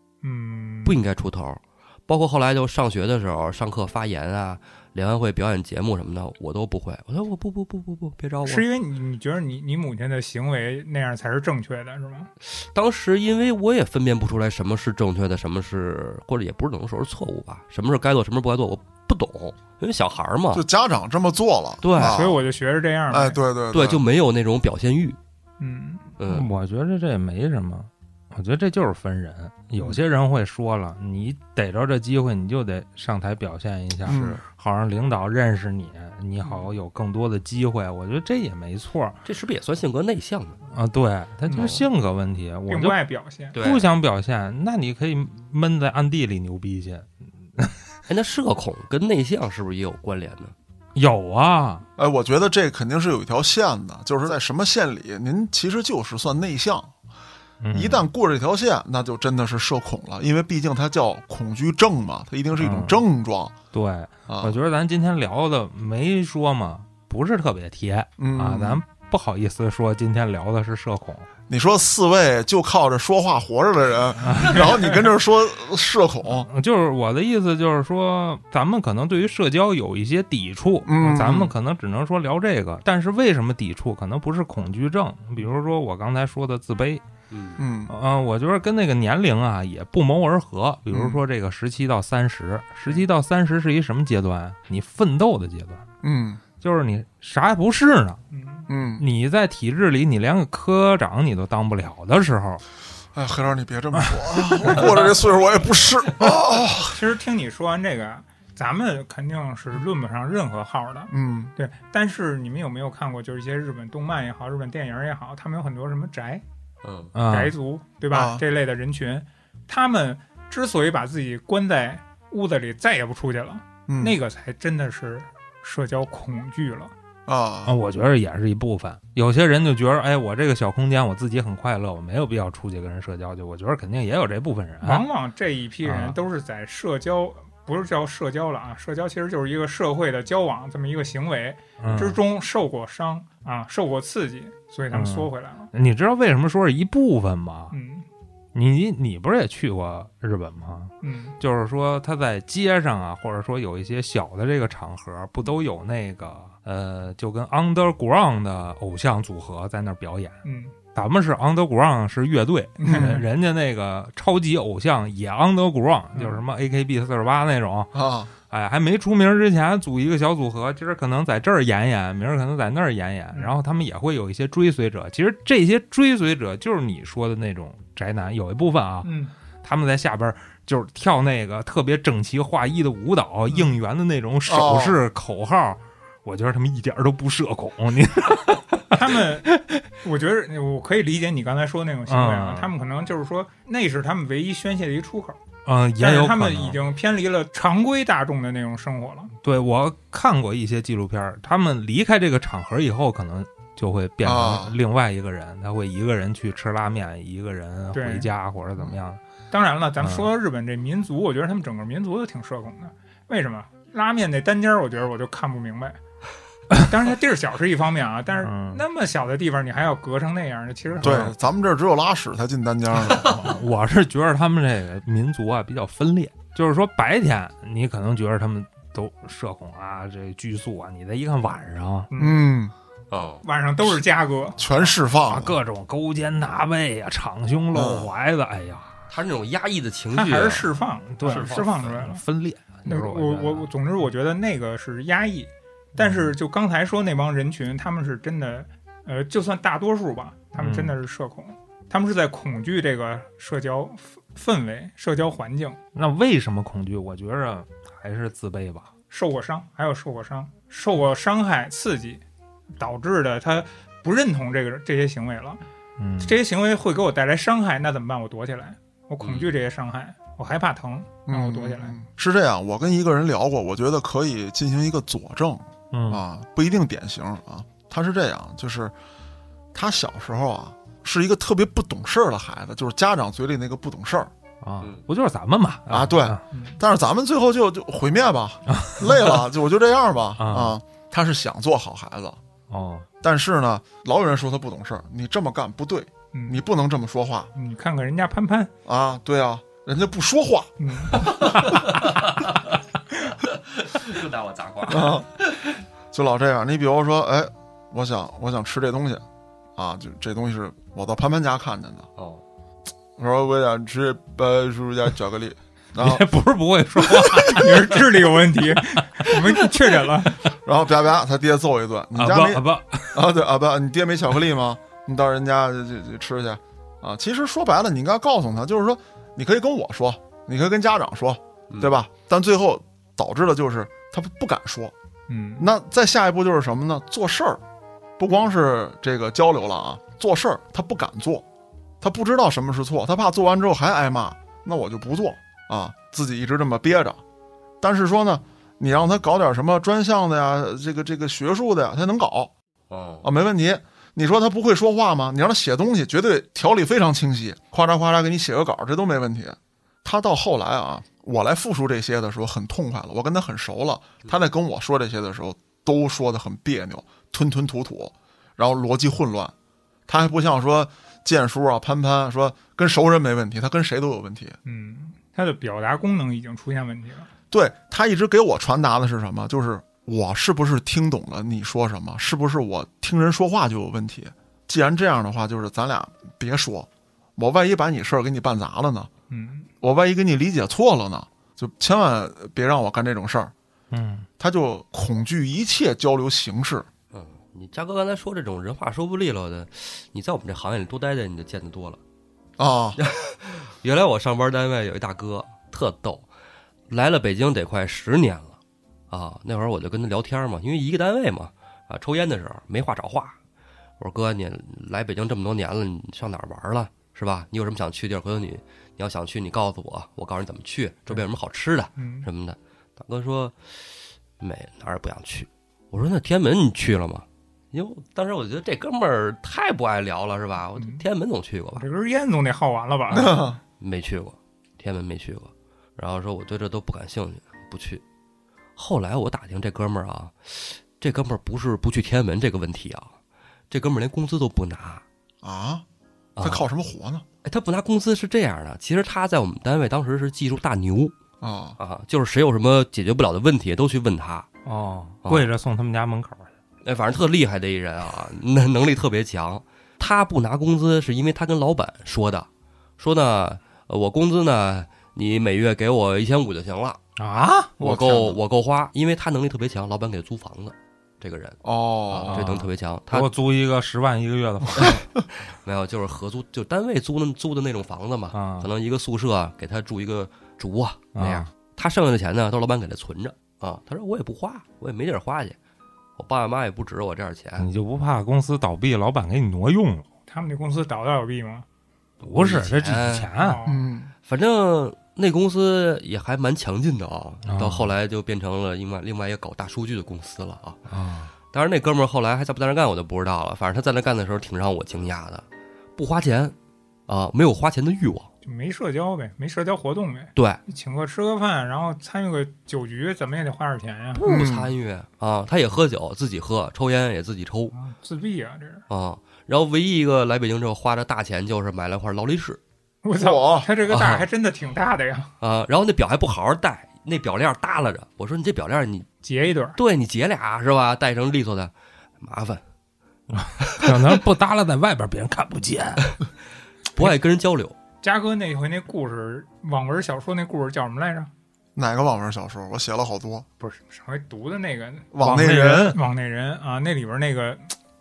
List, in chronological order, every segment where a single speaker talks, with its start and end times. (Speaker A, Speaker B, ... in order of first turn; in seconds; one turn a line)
Speaker A: 0.2-1.0
Speaker B: 0.8-8.7
Speaker A: 8.4-12.3
Speaker B: 12.4-20.6
Speaker C: 20.5-22.4
Speaker B: 21.8-22.2
Speaker A: 22.0-23.4
Speaker C: 23.1-24.0
Speaker B: 23.7-25.2
Speaker A: 25.6-26.1
Speaker B: 26.2-26.5
Speaker D: 26.3-39.2
Speaker B: 34.1-34.4
Speaker C: 34.1-34.4
Speaker B: 39.2-40.6
Speaker D: 40.7-43.0
Speaker B: 41.5-41.9
Speaker A: 42.7-43.6
Speaker B: 43.5-43.9
Speaker D: 43.6-47.8
Speaker B: 48.1-50.5
Speaker D: 51.0-51.8
Speaker C: 52.0-56.9
Speaker D: 57.6-58.1
Speaker C: 57.7-63.5
Speaker D: 62.6-63.0
Speaker D: 63.7-71.3
Speaker C: 64.3-64.5
Speaker C: 68.2-68.8
Speaker C: 71.5-76.5
Speaker D: 74.2-74.9
Speaker D: 76.4-87.0
Speaker C: 80.9-81.5
Speaker B: 87.3-87.6
Speaker C: 87.6-87.9
Speaker D: 87.9-95.8
Speaker C: 90.9-91.2
Speaker C: 96.0-96.4
Speaker D: 96.6-98.2
Speaker A: 98.3-98.7
Speaker C: 98.7-99.0
Speaker D: 99.0-102.6
Speaker C: 103.1-107.0
Speaker D: 104.0-104.9
Speaker A: 106.9-116.4
Speaker C: 111.1-111.5
Speaker B: 116.8-117.1
Speaker D: 117.1-117.5
Speaker A: 117.3-126.9
Speaker C: 118.1-118.4
Speaker C: 123.9-124.2
Speaker C: 127.3-127.8
Speaker D: 127.7-135.0
Speaker A: 134.8-145.7
Speaker D: 135.8-136.2
Speaker D: 141.8-142.2
Speaker D: 144.9-147.7
Speaker A: 147.7-148.1
Speaker D: 148.5-160.4
Speaker A: 151.0-151.4
Speaker A: 160.4-160.7
Speaker D: 160.9-167.9
Speaker A: 162.8-163.2
Speaker C: 162.8-163.2
Speaker A: 166.1-166.4
Speaker C: 167.9-168.3
Speaker D: 168.5-189.2
Speaker A: 179.0-179.3
Speaker C: 184.4-185.0
Speaker A: 188.9-189.5
Speaker A: 190.0-195.4
Speaker D: 192.1-192.7
Speaker D: 195.7-196.8
Speaker A: 196.0-199.3
Speaker D: 199.4-209.2
Speaker C: 204.2-204.8
Speaker A: 207.9-208.3
Speaker A: 209.5-216.0
Speaker D: 210.0-210.3
Speaker A: 216.8-221.3
Speaker D: 218.4-218.8
Speaker D: 221.0-221.3
Speaker C: 221.0-223.4
Speaker D: 223.0-232.1
Speaker A: 232.1-232.5
Speaker C: 232.2-232.7
Speaker B: 233.1-233.4
Speaker A: 233.4-234.9
Speaker C: 234.6-235.6
Speaker D: 235.3-239.0
Speaker C: 237.7-238.1
Speaker B: 239.1-240.7
Speaker A: 240.1-242.2
Speaker D: 241.2-243.7
Speaker B: 241.2-242.0
Speaker A: 242.9-255.8
Speaker D: 246.0-246.3
Speaker D: 250.6-250.9
Speaker D: 255.9-258.9
Speaker A: 259.1-262.2
Speaker A: 262.8-265.6
Speaker D: 266.0-266.4
Speaker A: 266.2-272.0
Speaker B: 269.2-269.6
Speaker C: 271.3-278.9
Speaker D: 275.9-276.2
Speaker C: 279.7-284.3
Speaker D: 284.6-286.4
Speaker C: 285.9-292.4
Speaker A: 286.5-286.8
Speaker D: 288.7-289.3
Speaker D: 290.4-290.8
Speaker D: 292.7-293.1
Speaker C: 293.2-297.5
Speaker A: 296.3-296.6
Speaker A: 297.6-298.7
Speaker C: 298.9-300.7
Speaker A: 300.8-301.8
Speaker B: 301.2-302.6
Speaker B: 303.4-305.7
Speaker C: 304.9-305.3
Speaker C: 306.1-309.2
Speaker C: 309.8-312.1
Speaker B: 312.2-312.4
Speaker C: 313.2-316.3
Speaker D: 316.0-318.1
Speaker A: 317.3-320.4
Speaker C: 320.6-334.9
Speaker D: 322.1-323.2
Speaker A: 335.3-335.7
Speaker C: 335.6-337.6
Speaker C: 338.2-341.4
Speaker C: 342.0-347.2
Speaker C: 347.8-352.5
Speaker B: 352.9-353.3
Speaker C: 353.2-369.5
Speaker C: 370.1-374.6
Speaker A: 374.6-377.3
Speaker C: 377.5-389.1
Speaker A: 389.3-389.7
Speaker C: 389.8-393.5
Speaker D: 393.9-394.3
Speaker C: 394.4-396.9
Speaker B: 397.1-402.0
Speaker C: 402.6-403.0
Speaker B: 403.0-406.3
Speaker B: 406.9-408.6
Speaker B: 409.1-413.4
Speaker B: 414.0-431.8
Speaker A: 422.0-422.3
Speaker A: 430.8-431.0
Speaker A: 431.8-433.5
Speaker C: 433.1-433.6
Speaker B: 433.8-438.0
Speaker B: 438.8-443.1
Speaker B: 443.7-445.0
Speaker C: 445.4-445.8
Speaker B: 446.4-446.6
Speaker C: 446.4-447.2
Speaker B: 447.4-451.1
Speaker C: 451.4-451.8
Speaker B: 451.8-454.5
Speaker D: 454.6-456.5
Speaker B: 456.8-462.5
Speaker B: 463.0-467.0
Speaker D: 467.2-467.7
Speaker C: 467.8-468.4
Speaker B: 467.8-473.3
Speaker C: 471.6-472.4
Speaker D: 472.3-475.0
Speaker B: 474.8-485.6
Speaker D: 478.3-478.7
Speaker D: 481.1-481.5
Speaker B: 486.2-487.7
Speaker D: 487.6-490.1
Speaker A: 490.3-491.6
Speaker D: 492.2-493.6
Speaker B: 492.4-493.3
Speaker A: 493.4-493.8
Speaker C: 493.6-494.1
Speaker B: 494.3-500.8
Speaker D: 497.4-497.9
Speaker D: 500.9-501.3
Speaker B: 501.5-505.4
Speaker B: 506.0-506.6
Speaker B: 507.1-508.3
Speaker A: 508.4-514.2
Speaker B: 510.4-510.6
Speaker B: 514.1-517.7
Speaker C: 514.3-514.7
Speaker A: 517.7-518.8
Speaker B: 518.9-522.6
Speaker A: 523.0-525.3
Speaker C: 523.1-523.7
Speaker B: 523.9-524.3
Speaker B: 525.4-529.1
Speaker A: 529.2-529.8
Speaker B: 529.7-532.6
Speaker D: 533.3-536.1
Speaker B: 533.7-534.0
Speaker B: 536.9-537.7
Speaker A: 538.0-541.3
Speaker C: 541.8-543.5
Speaker A: 543.6-545.1
Speaker C: 545.1-546.0
Speaker D: 545.2-546.0
Speaker A: 545.8-547.7